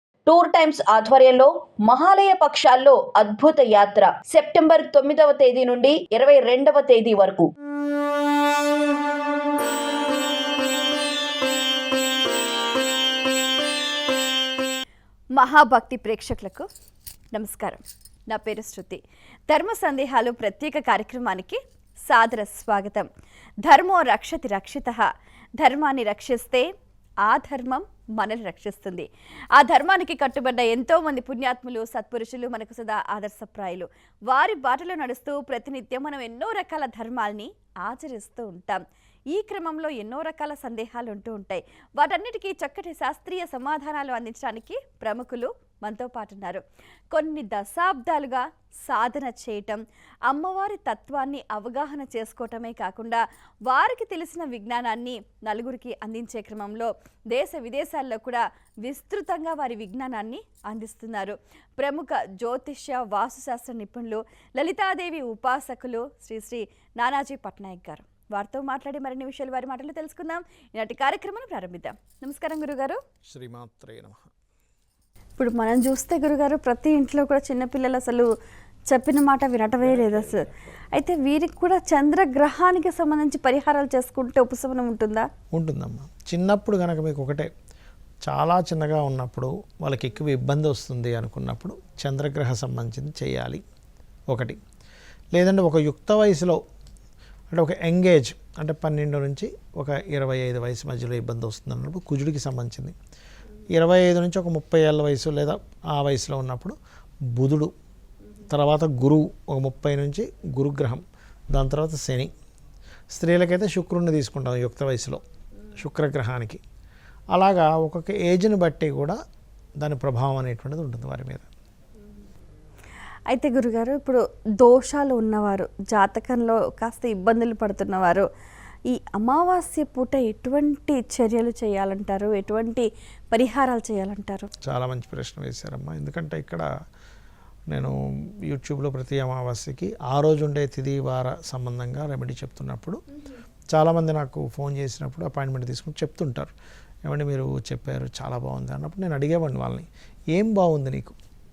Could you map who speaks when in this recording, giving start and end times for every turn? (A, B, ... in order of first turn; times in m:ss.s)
0:00.3-0:07.5 A
0:15.4-0:16.7 B
0:17.3-0:23.1 B
0:23.7-0:25.1 B
0:25.6-0:26.7 B
0:27.3-1:13.0 B
1:13.3-1:14.3 C
1:15.4-1:18.3 B
1:18.9-1:25.3 B
1:19.8-1:20.7 C
1:25.5-1:27.5 C
1:28.2-1:33.6 C
1:34.3-1:34.6 C
1:35.3-1:36.6 C
1:37.5-1:43.0 C
1:43.7-1:46.8 C
1:47.4-1:47.7 C
1:48.5-1:52.3 C
1:53.1-1:55.2 C
1:55.8-1:56.6 C
1:57.3-1:59.2 C
1:59.8-2:01.5 C
2:03.3-2:08.2 B
2:08.9-2:14.5 B
2:14.6-2:16.7 C
2:18.5-2:23.0 C
2:23.7-2:26.5 C
2:27.1-2:31.2 C